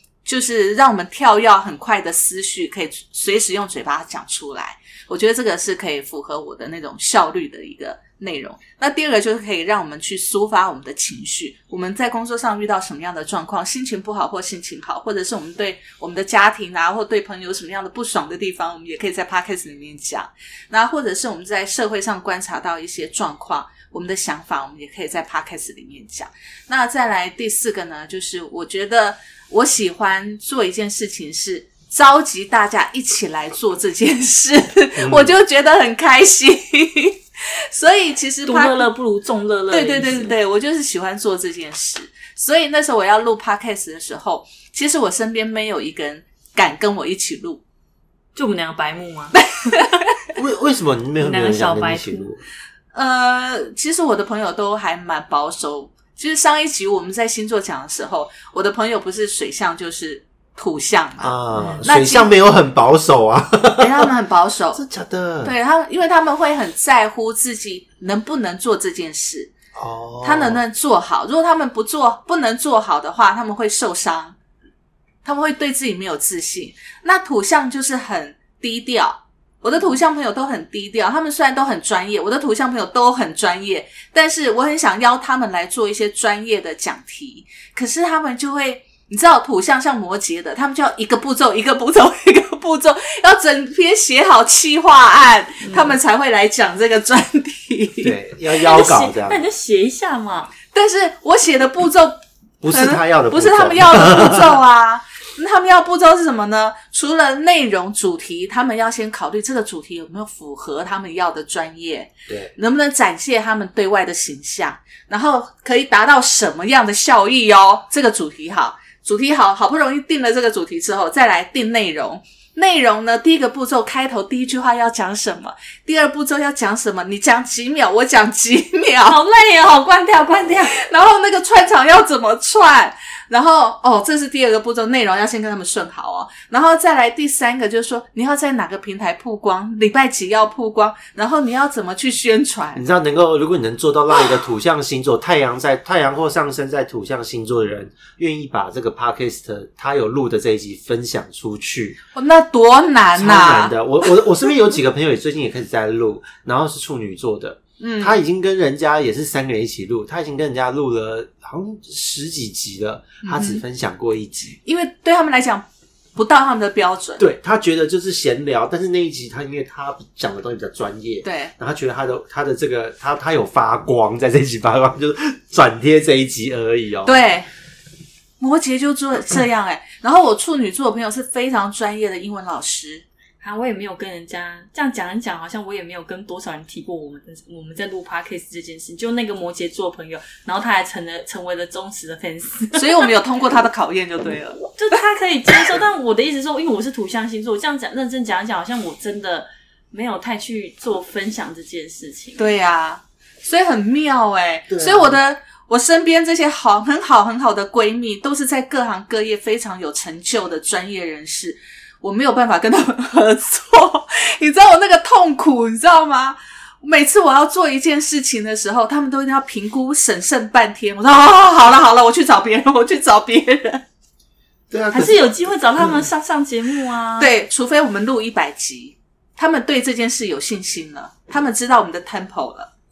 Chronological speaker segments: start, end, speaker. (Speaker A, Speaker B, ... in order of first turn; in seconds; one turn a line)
Speaker A: 0.2-38.9
Speaker B: 35.0-35.3
Speaker C: 38.5-40.4
Speaker A: 39.7-47.6
Speaker C: 48.3-49.9
Speaker A: 49.3-50.0
Speaker B: 50.3-52.4
Speaker C: 51.2-52.3
Speaker A: 52.9-62.3
Speaker B: 61.2-64.1
Speaker A: 63.8-64.8
Speaker B: 64.7-65.5
Speaker A: 65.4-69.5
Speaker B: 69.7-70.6
Speaker A: 70.2-74.3
Speaker A: 75.2-98.2
Speaker C: 95.7-96.0
Speaker B: 98.0-99.4
Speaker C: 98.6-100.5
Speaker A: 100.7-129.2
Speaker B: 102.6-104.6
Speaker C: 129.0-130.8
Speaker A: 130.7-142.8
Speaker B: 142.7-152.0
Speaker A: 152.1-153.8
Speaker B: 153.1-164.6
Speaker A: 157.8-158.2
Speaker A: 163.2-163.6
Speaker A: 164.6-167.2
Speaker B: 167.2-177.2
Speaker A: 171.2-171.5
Speaker A: 177.0-177.5
Speaker A: 178.4-183.0
Speaker C: 183.4-193.2
Speaker A: 192.7-194.7
Speaker C: 194.8-202.5
Speaker A: 202.4-223.8
Speaker B: 204.7-205.2
Speaker B: 224.7-226.0
Speaker C: 224.9-227.3
Speaker A: 227.2-232.7